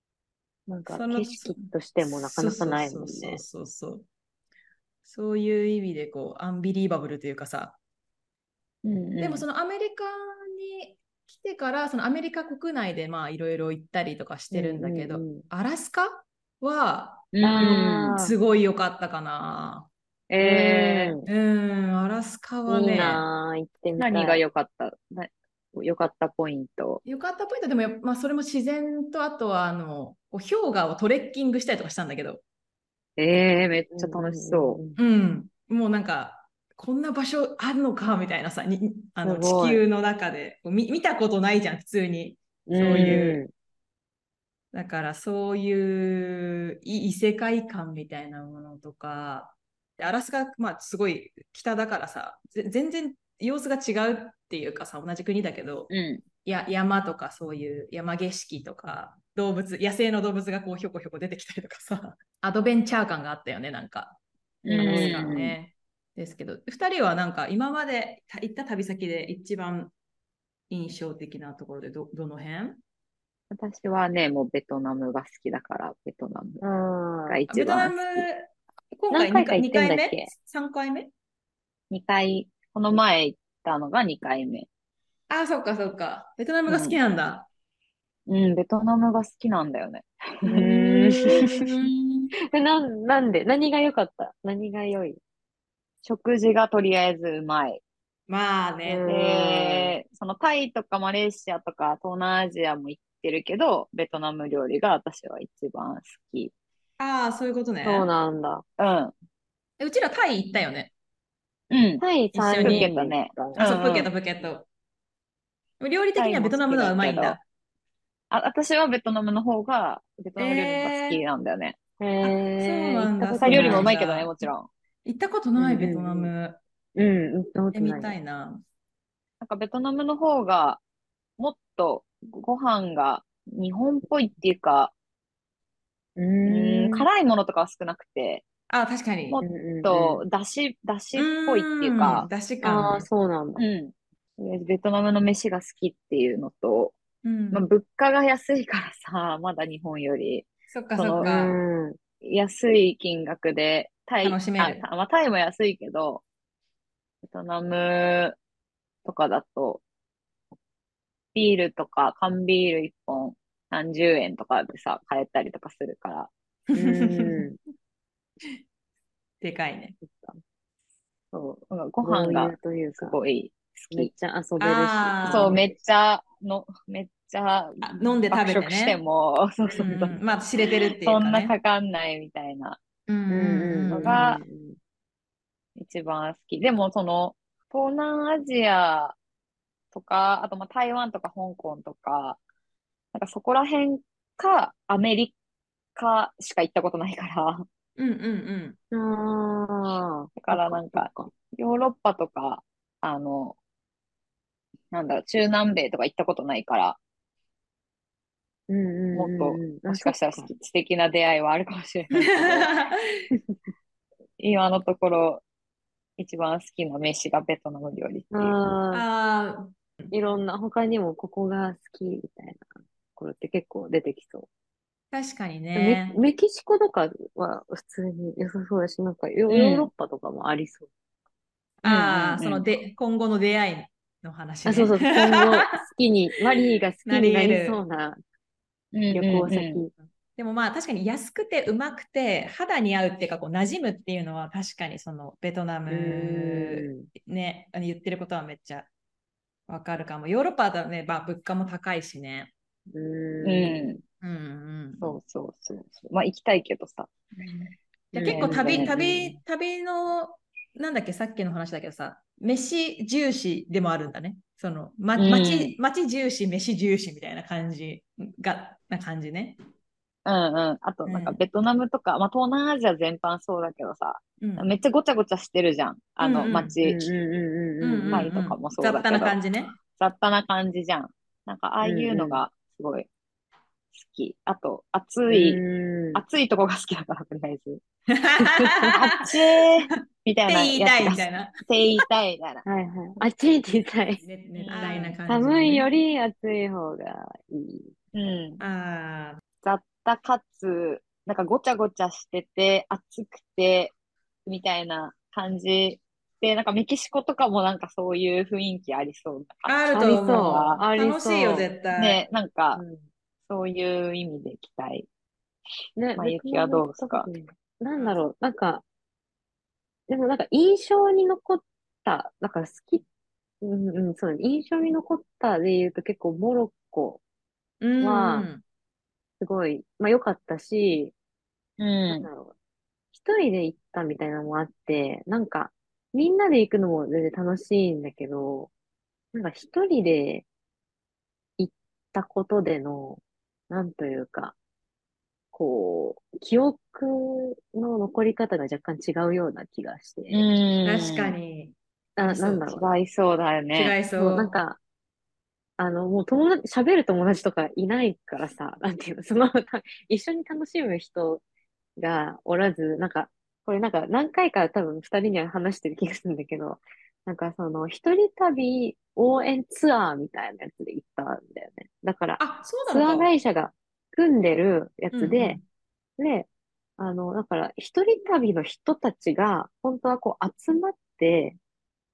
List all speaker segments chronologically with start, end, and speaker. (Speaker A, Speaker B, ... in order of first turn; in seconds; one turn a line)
Speaker A: 0.7-3.4
Speaker B: 0.9-4.0
Speaker B: 5.0-7.8
Speaker C: 8.8-9.4
Speaker B: 9.2-19.9
Speaker A: 14.5-15.4
Speaker C: 17.3-18.2
Speaker A: 17.4-18.3
Speaker C: 20.3-21.2
Speaker A: 20.4-21.3
Speaker B: 21.2-23.2
Speaker A: 22.7-24.4
Speaker C: 24.0-27.0
Speaker B: 27.0-32.4
Speaker C: 33.2-34.8
Speaker A: 33.9-35.0
Speaker B: 35.0-43.4
Speaker A: 39.2-39.8
Speaker A: 42.7-43.5
Speaker B: 44.7-55.9
Speaker C: 55.9-56.2
Speaker B: 56.4-64.2
Speaker C: 64.6-65.5
Speaker A: 64.7-65.3
Speaker B: 64.8-69.9
Speaker B: 70.7-72.8
Speaker C: 73.5-76.6
Speaker A: 76.6-77.4
Speaker C: 77.2-78.2
Speaker B: 77.5-81.1
Speaker A: 79.1-80.3
Speaker C: 81.9-84.7
Speaker B: 85.3-87.5
Speaker C: 86.7-87.0
Speaker C: 88.3-92.3
Speaker A: 90.5-91.6
Speaker B: 91.2-91.9
Speaker A: 92.5-95.2
Speaker C: 96.0-97.8
Speaker B: 98.3-99.1
Speaker A: 98.8-99.9
Speaker C: 99.1-106.5
Speaker B: 107.0-108.1
Speaker A: 107.8-108.6
Speaker C: 108.8-109.1
Speaker B: 109.8-110.9
Speaker C: 111.7-112.0
Speaker A: 112.0-113.6
Speaker B: 112.3-112.9
Speaker C: 112.6-114.1
Speaker B: 113.5-114.7
Speaker B: 115.8-117.4
Speaker C: 116.2-117.4
Speaker C: 118.3-121.8
Speaker B: 120.4-121.2
Speaker A: 122.0-123.9
Speaker B: 122.2-124.5
Speaker C: 123.4-124.7
Speaker B: 125.0-126.6
Speaker A: 125.6-126.3
Speaker A: 127.0-128.2
Speaker B: 127.7-128.6
Speaker C: 129.4-130.8
Speaker C: 131.4-134.9
Speaker A: 136.2-137.1
Speaker C: 136.4-138.4
Speaker B: 138.7-139.4
Speaker C: 139.3-142.3
Speaker A: 139.4-140.2
Speaker B: 141.2-143.1
Speaker A: 142.6-143.6
Speaker C: 143.6-147.0
Speaker B: 147.2-147.6
Speaker C: 147.5-151.3
Speaker B: 150.7-151.6
Speaker A: 151.2-152.0
Speaker C: 152.2-156.2
Speaker B: 154.2-154.8
Speaker C: 157.3-158.4
Speaker C: 159.0-159.8
Speaker C: 161.3-166.3
Speaker B: 166.7-167.4
Speaker A: 166.7-167.6
Speaker B: 169.4-169.9
Speaker A: 170.0-170.4
Speaker C: 171.3-174.1
Speaker A: 172.0-173.2
Speaker A: 173.9-175.7
Speaker B: 174.6-175.6
Speaker C: 175.2-180.2
Speaker B: 177.8-179.0
Speaker A: 179.7-180.2
Speaker B: 179.8-181.5
Speaker C: 181.0-182.8
Speaker B: 183.1-184.3
Speaker A: 183.3-184.8
Speaker C: 183.9-184.4
Speaker C: 185.8-189.2
Speaker C: 189.9-192.4
Speaker C: 193.1-195.3
Speaker C: 195.9-197.7
Speaker B: 198.0-198.8
Speaker A: 198.9-201.3
Speaker C: 200.4-203.6
Speaker C: 204.9-207.0
Speaker A: 208.7-210.5
Speaker C: 209.1-212.7
Speaker B: 212.1-213.3
Speaker C: 214.4-215.4
Speaker C: 216.2-218.6
Speaker A: 218.3-219.0
Speaker B: 218.9-220.1
Speaker A: 220.1-224.5
Speaker B: 225.1-226.2
Speaker A: 225.7-230.9
Speaker C: 229.5-229.9
Speaker B: 231.8-235.8
Speaker C: 231.8-232.7
Speaker A: 234.7-238.2
Speaker B: 237.1-237.8
Speaker C: 238.9-239.8
Speaker A: 239.1-239.9
Speaker B: 240.3-248.9
Speaker A: 245.9-247.1
Speaker B: 249.7-252.5
Speaker A: 252.9-253.9
Speaker C: 253.4-254.0
Speaker B: 254.2-255.2
Speaker C: 255.0-257.5
Speaker B: 258.1-269.6
Speaker A: 258.1-259.3
Speaker C: 258.2-259.3
Speaker C: 265.1-265.8
Speaker C: 270.2-277.1
Speaker B: 271.1-271.4
Speaker B: 274.4-274.7
Speaker B: 276.2-276.8
Speaker A: 276.8-278.3
Speaker B: 277.8-279.8
Speaker C: 278.1-283.1
Speaker A: 281.8-282.4
Speaker C: 283.9-285.6
Speaker A: 285.3-286.2
Speaker C: 286.1-287.8
Speaker B: 288.1-289.3
Speaker A: 288.4-288.9
Speaker C: 288.9-292.6
Speaker B: 290.5-291.5
Speaker A: 292.6-297.9
Speaker B: 294.2-295.9
Speaker C: 294.6-295.2
Speaker C: 298.1-298.6
Speaker B: 298.6-299.4
Speaker C: 299.6-303.9
Speaker C: 304.4-309.8
Speaker B: 309.6-312.2
Speaker A: 309.9-311.7
Speaker C: 311.9-312.8
Speaker A: 312.7-313.0
Speaker C: 313.5-315.1
Speaker A: 316.0-318.8
Speaker C: 316.1-317.3
Speaker A: 320.1-323.0
Speaker A: 323.6-327.2
Speaker B: 327.8-328.6
Speaker A: 328.0-328.5
Speaker A: 329.4-331.1
Speaker C: 331.8-332.3
Speaker A: 332.1-332.5
Speaker A: 333.1-338.7
Speaker A: 339.3-340.4
Speaker A: 341.6-344.6
Speaker A: 345.5-350.4
Speaker C: 350.3-351.3
Speaker B: 350.8-351.7
Speaker A: 352.2-352.9
Speaker B: 352.2-352.7
Speaker C: 352.7-354.0
Speaker B: 353.7-354.6
Speaker A: 354.1-354.8
Speaker A: 355.8-361.4
Speaker A: 362.0-375.6
Speaker B: 372.4-373.3
Speaker B: 375.1-375.6
Speaker A: 376.2-381.6